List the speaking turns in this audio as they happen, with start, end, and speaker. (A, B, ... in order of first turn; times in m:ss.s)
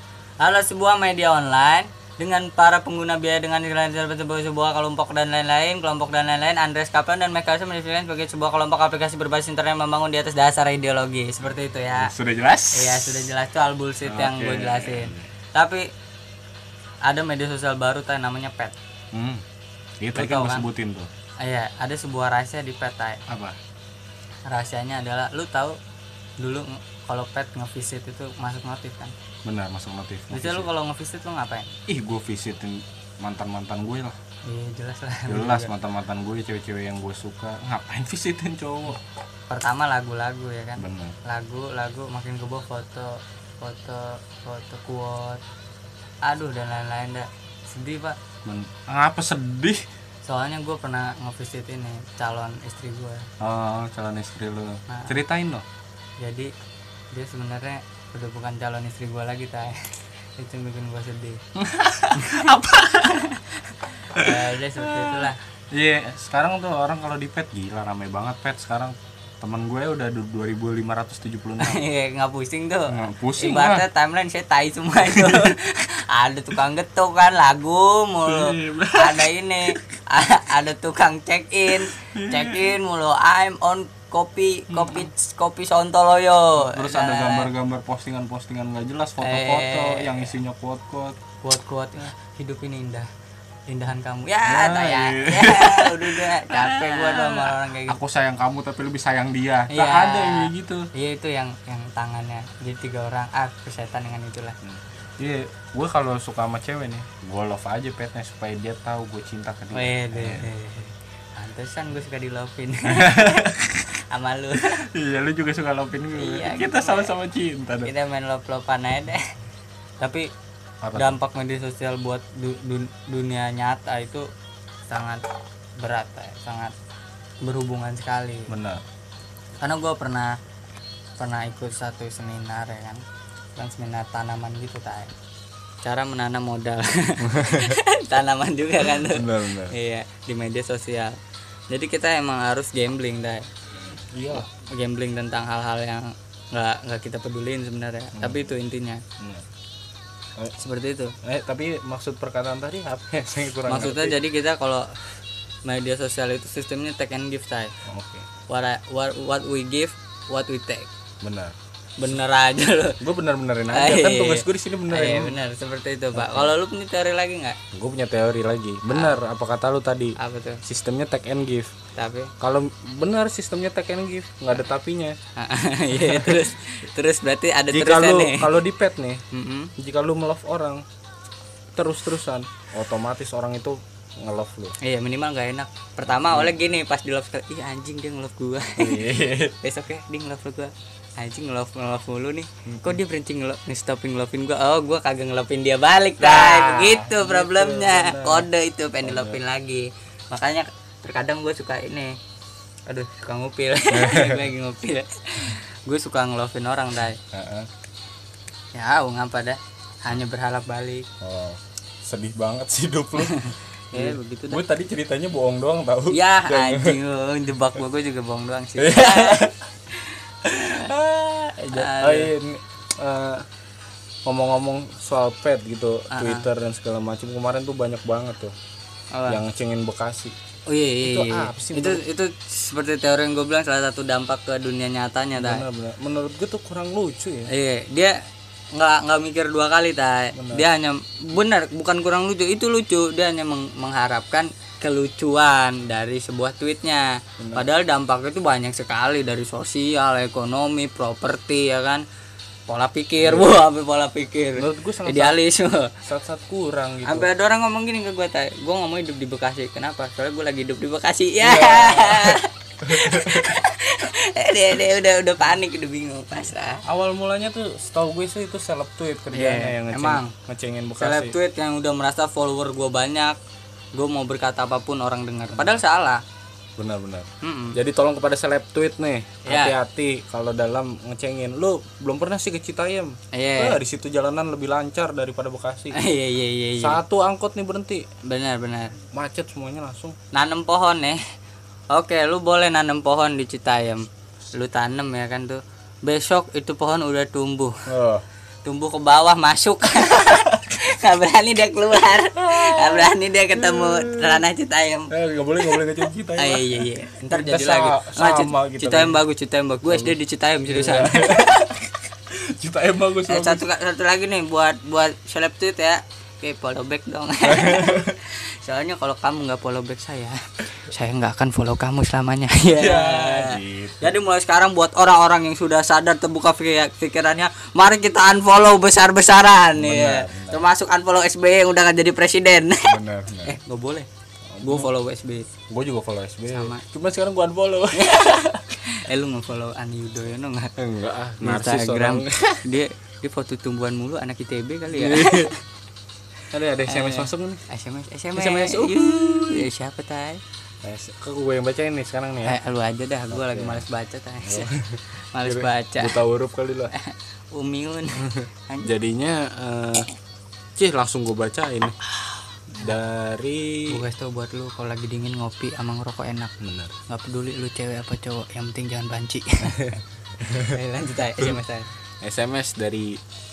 0:00.4-0:12.1 A
0:11.9-0:13.3 B
0:12.7-0:15.8 A
0:14.0-0:15.3 B
0:17.0-0:18.7 A
0:19.1-0:19.4 B
0:20.0-0:21.1 B
0:20.1-0:20.6 A
0:21.4-0:23.2 A
0:23.3-0:23.6 B
0:24.5-0:25.8 A
0:26.4-0:29.1 A
0:29.4-0:30.7 B
0:30.3-0:31.7 A
0:31.9-0:34.2 B
0:34.4-0:35.7 A
0:35.3-0:39.0 B
0:39.5-0:45.4 A
0:40.8-0:41.2 B
0:46.2-0:48.2 A
0:48.4-0:49.8 B
0:50.2-0:53.2 A
0:53.4-0:55.6 B
0:54.9-0:55.2 A
0:56.2-0:56.5 A
0:57.1-1:01.4 A
1:01.6-1:03.4 B
1:02.1-1:05.4 A
1:04.1-1:11.8 B
1:11.6-1:27.5 A
1:12.9-1:13.8 B
1:15.0-1:15.5 B
1:18.2-1:19.8 B
1:21.7-1:22.8 B
1:24.7-1:25.1 B
1:26.6-1:31.2 B
1:29.2-1:30.3 A
1:31.4-1:33.1 A
1:33.7-1:38.0 A
1:34.4-1:40.9 B
1:39.7-1:44.6 A
1:44.6-1:50.5 B
1:49.7-1:53.4 A
1:52.8-1:54.0 B
1:54.1-1:54.9 A
1:54.6-1:57.9 B
1:56.1-1:57.1 A
1:57.8-1:59.2 A
2:00.0-2:00.3 A
2:00.8-2:01.2 B
2:01.0-2:04.2 A
2:04.9-2:05.2 A
2:05.8-2:06.7 A
2:07.4-2:08.5 A
2:08.5-2:08.8 B
2:09.6-2:10.3 A
2:11.2-2:13.0 A
2:13.6-2:15.1 A
2:15.8-2:21.1 A
2:17.2-2:17.8 B
2:18.8-2:19.8 B
2:21.7-2:23.5 A
2:23.9-2:24.5 B
2:24.3-2:29.0 A
2:28.1-2:28.5 B
2:29.2-2:29.4 B
2:30.6-2:31.1 A
2:31.2-2:34.2 B
2:33.7-2:35.0 A
2:35.6-2:37.7 A
2:37.8-2:38.3 B
2:38.5-2:40.9 A
2:41.2-2:41.6 B
2:42.0-2:43.0 A
2:43.0-2:45.4 B
2:43.7-2:47.6 A
2:46.1-2:46.5 B
2:47.7-2:51.7 B
2:48.9-2:49.2 A
2:50.2-2:50.6 A
2:51.9-2:52.3 A
2:52.4-2:55.2 B
2:55.4-2:58.6 A
2:55.9-2:56.5 B
2:57.7-2:59.2 B
2:59.3-2:59.7 A
2:59.8-3:00.8 B
3:01.7-3:04.7 B
3:04.8-3:09.1 A
3:06.0-3:06.7 B
3:08.7-3:09.6 B
3:09.6-3:22.2 A
3:12.6-3:13.0 B
3:16.2-3:18.5 B
3:19.0-3:19.4 B
3:22.9-3:27.2 A
3:23.9-3:24.5 B
3:27.3-3:27.7 B
3:28.7-3:31.1 A
3:31.2-3:37.0 B
3:33.2-3:34.6 A
3:36.1-3:39.5 A
3:38.8-3:39.6 B
3:40.4-3:43.4 B
3:40.6-3:40.9 A
3:41.7-3:42.3 A
3:44.2-3:48.5 B
3:46.1-3:46.5 A
3:49.1-3:49.4 A
3:49.3-3:50.3 B
3:50.7-3:55.6 A
3:51.0-3:52.0 B
3:55.3-3:57.5 B
3:57.5-3:58.2 A
3:58.7-4:12.0 A
4:00.3-4:00.7 B
4:07.4-4:07.6 B
4:12.7-4:15.9 A
4:13.2-4:13.6 B
4:14.6-4:15.4 B
4:16.0-4:17.3 B
4:17.0-4:26.8 A
4:21.4-4:23.6 B
4:26.8-4:31.4 B
4:29.3-4:30.3 A
4:31.0-4:33.4 A
4:33.9-4:36.2 A
4:35.5-4:35.8 B
4:36.8-4:46.0 B
4:37.4-4:37.8 A
4:39.4-4:39.8 A
4:43.3-4:43.8 A
4:45.9-4:47.0 A
4:46.8-4:48.0 B
4:48.2-4:49.0 A
4:49.1-4:50.2 B
4:50.3-4:51.2 A
4:51.9-4:57.7 A
4:57.9-4:58.2 B
4:58.6-5:11.7 A
5:00.1-5:00.5 B
5:02.1-5:04.4 B
5:05.1-5:09.2 B
5:09.8-5:10.2 B
5:10.7-5:13.6 B
5:13.3-5:34.1 A
5:17.4-5:18.2 B
5:22.7-5:24.1 B
5:29.7-5:30.7 B
5:32.8-5:33.6 B
5:34.5-5:34.9 B
5:34.6-5:35.5 A
5:35.7-5:38.6 B
5:36.5-5:36.8 A
5:37.9-5:40.7 A
5:40.8-5:42.7 B
5:41.4-5:45.6 A
5:44.9-5:45.5 B
5:46.5-5:47.6 B
5:46.8-5:50.4 A
5:48.3-5:49.7 B
5:50.8-5:52.6 B
5:52.4-5:54.7 A
5:53.3-5:53.8 B
5:54.4-5:56.9 B
5:55.3-5:56.2 A
5:56.9-5:58.9 A
5:58.2-6:00.1 B
6:00.8-6:01.9 B
6:02.2-6:02.9 A
6:02.7-6:04.0 B
6:03.9-6:06.5 A
6:06.6-6:06.9 B
6:07.1-6:09.9 A
6:09.6-6:10.8 B
6:10.5-6:11.9 A
6:12.2-6:13.2 B